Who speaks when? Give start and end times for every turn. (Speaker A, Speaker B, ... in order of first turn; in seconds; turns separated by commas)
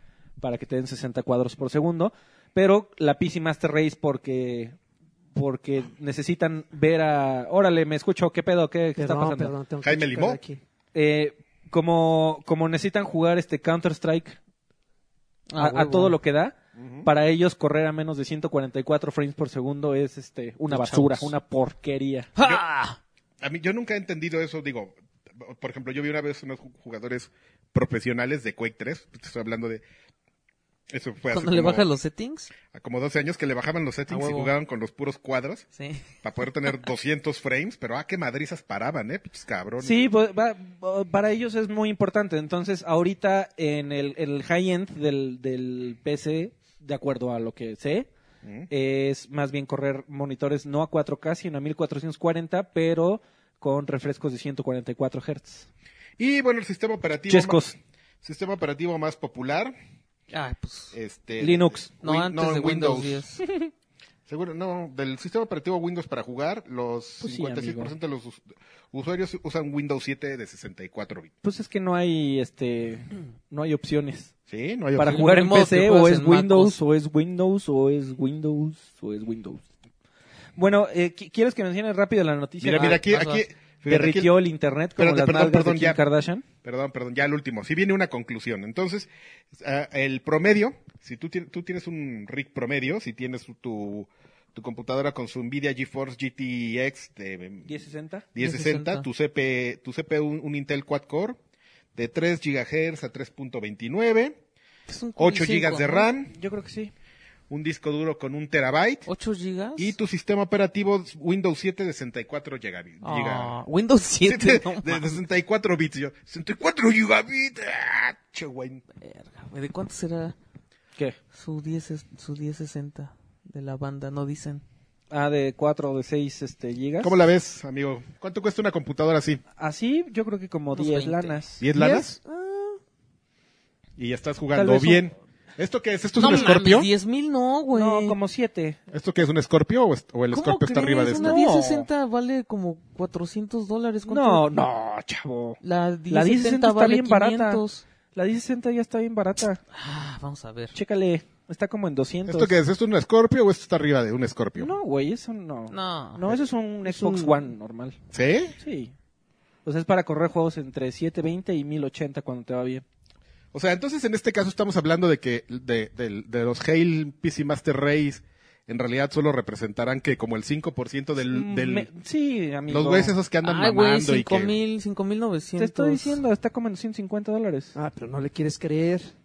Speaker A: 0.4-4.8, Speaker A: 5.3-9.5, Speaker B: 9.0-10.6, Speaker C: 9.8-10.4, Speaker A: 10.9-14.4, Speaker D: 15.5-16.2, Speaker A: 15.6-22.3, Speaker C: 16.8-17.1, Speaker D: 20.7-21.3, Speaker D: 22.4-23.0, Speaker C: 23.4-29.8, Speaker C: 30.9-31.9, Speaker D: 31.3-32.5, Speaker C: 32.7-35.6, Speaker D: 34.1-34.5, Speaker D: 35.8-36.0, Speaker C: 36.2-40.0, Speaker A: 39.8-48.1, Speaker C: 48.4-48.7, Speaker A: 48.7-55.7, Speaker C: 56.2-57.7, Speaker A: 57.3-57.7, Speaker C: 58.2-59.7, Speaker D: 60.3-60.9, Speaker C: 60.9-63.2, Speaker A: 61.4-61.9, Speaker D: 62.0-63.4, Speaker A: 63.4-63.7, Speaker C: 64.3-71.3, Speaker A: 67.2-67.9, Speaker A: 71.4-74.3, Speaker C: 74.5-75.3, Speaker A: 75.0-79.6, Speaker D: 75.0-76.8, Speaker A: 80.5-83.1, Speaker C: 82.6-84.3, Speaker D: 83.0-83.4, Speaker A: 83.9-86.4, Speaker C: 85.0-86.0, Speaker C: 86.6-97.7, Speaker A: 97.7-98.3, Speaker C: 98.3-101.4, Speaker D: 98.4-99.0, Speaker C: 101.9-104.4, Speaker D: 104.9-106.1, Speaker C: 105.2-106.3, Speaker A: 106.3-106.9, Speaker C: 107.5-109.1, Speaker D: 109.1-109.9, Speaker C: 109.8-113.5, Speaker D: 113.0-115.2, Speaker C: 114.2-118.8, Speaker D: 119.0-120.3, Speaker D: 121.3-124.6, Speaker A: 125.1-127.2, Speaker C: 127.0-129.4, Speaker A: 129.6-131.6, Speaker D: 130.7-131.4, Speaker C: 131.6-132.2, Speaker B: 131.7-132.8, Speaker C: 134.0-136.9, Speaker A: 134.5-135.0, Speaker D: 136.2-138.2, Speaker A: 136.2-136.5, Speaker A: 137.7-138.8, Speaker C: 138.9-141.4, Speaker D: 140.3-144.4, Speaker A: 141.1-141.9, Speaker A: 144.1-145.6, Speaker D: 145.6-147.8, Speaker A: 146.1-147.6, Speaker A: 148.1-149.6, Speaker D: 149.7-150.7, Speaker A: 150.7-152.5, Speaker C: 152.3-154.7, Speaker A: 154.6-158.0, Speaker D: 155.7-156.3, Speaker B: 156.8-157.4, Speaker C: 158.1-158.5, Speaker A: 158.6-158.9, Speaker A: 159.6-162.8, Speaker C: 163.5-171.9, Speaker A: 171.3-173.1, Speaker C: 172.7-174.5, Speaker D: 173.4-176.2, Speaker A: 175.6-177.7, Speaker B: 177.7-179.1